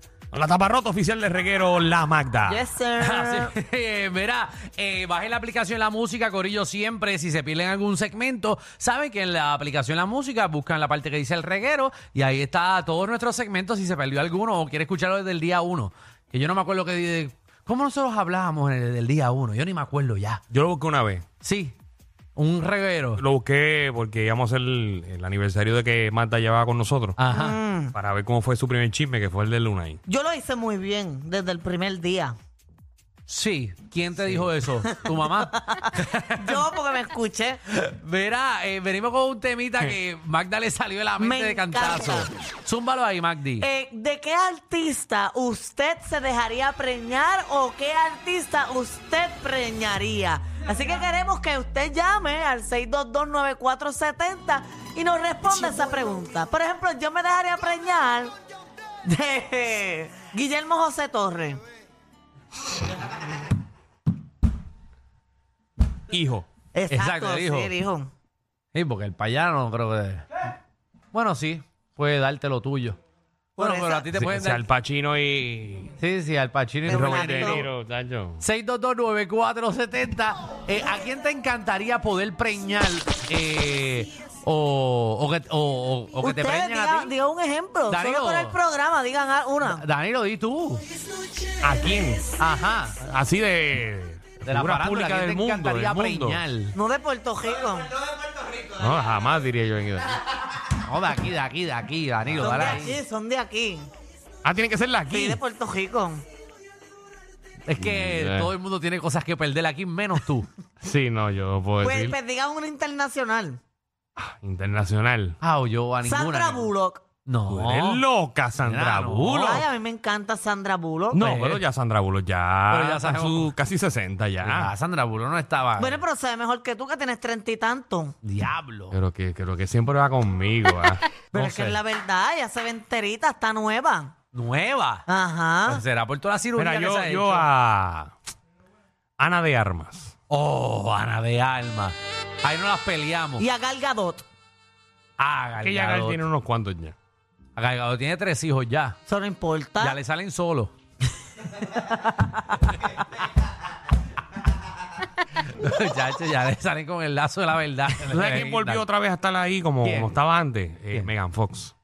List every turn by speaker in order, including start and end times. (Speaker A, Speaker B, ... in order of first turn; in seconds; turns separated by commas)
Speaker A: 0.3-2.6, Speaker B: 2.5-3.5, Speaker C: 3.0-20.4, Speaker A: 20.5-21.2, Speaker C: 21.4-21.7, Speaker C: 22.4-23.2, Speaker A: 23.2-27.2, Speaker C: 27.2-27.6, Speaker B: 27.3-27.9, Speaker A: 27.9-30.0, Speaker B: 30.1-32.3, Speaker C: 33.3-36.7, Speaker B: 35.7-37.6, Speaker C: 37.7-43.7, Speaker B: 41.2-42.3, Speaker B: 43.6-58.3, Speaker B: 59.0-61.6, Speaker A: 66.1-66.4, Speaker B: 66.7-68.1, Speaker C: 66.9-67.7, Speaker C: 68.7-70.2, Speaker C: 71.1-73.0, Speaker B: 73.6-74.1, Speaker C: 73.6-74.6, Speaker A: 74.1-75.9, Speaker C: 76.0-77.7, Speaker B: 76.8-77.7, Speaker A: 76.9-78.4, Speaker C: 78.4-87.1, Speaker B: 86.2-89.8, Speaker C: 87.9-88.6, Speaker C: 89.6-90.8, Speaker A: 91.6-92.3, Speaker C: 92.4-93.0, Speaker A: 93.0-96.4, Speaker C: 94.5-96.8, Speaker B: 96.7-97.9, Speaker A: 98.7-100.2, Speaker C: 100.8-103.0, Speaker B: 102.4-103.9, Speaker A: 104.4-105.4, Speaker B: 105.1-106.2, Speaker C: 107.6-110.5, Speaker A: 107.8-108.5, Speaker A: 110.8-112.1, Speaker B: 111.8-113.6, Speaker A: 114.2-115.4, Speaker C: 115.4-116.7, Speaker B: 116.0-117.0, Speaker C: 117.2-118.0, Speaker A: 117.5-119.6, Speaker C: 118.6-119.6, Speaker B: 119.3-121.2, Speaker C: 121.1-121.6, Speaker A: 121.1-124.7, Speaker C: 122.7-123.5, Speaker C: 124.4-126.0, Speaker B: 125.8-128.1, Speaker C: 128.2-128.9, Speaker A: 128.9-131.7, Speaker B: 131.3-134.1, Speaker C: 134.3-135.1, Speaker B: 135.1-135.8, Speaker C: 135.7-137.5, Speaker A: 136.6-138.1, Speaker A: 139.2-140.1, Speaker C: 140.3-143.4, Speaker B: 143.4-144.2, Speaker C: 145.2-146.2, Speaker A: 145.6-146.9, Speaker C: 147.6-149.0, Speaker B: 149.1-150.0, Speaker C: 149.8-150.7, Speaker C: 155.2-158.8, Speaker A: 158.1-161.7, Speaker C: 159.8-160.2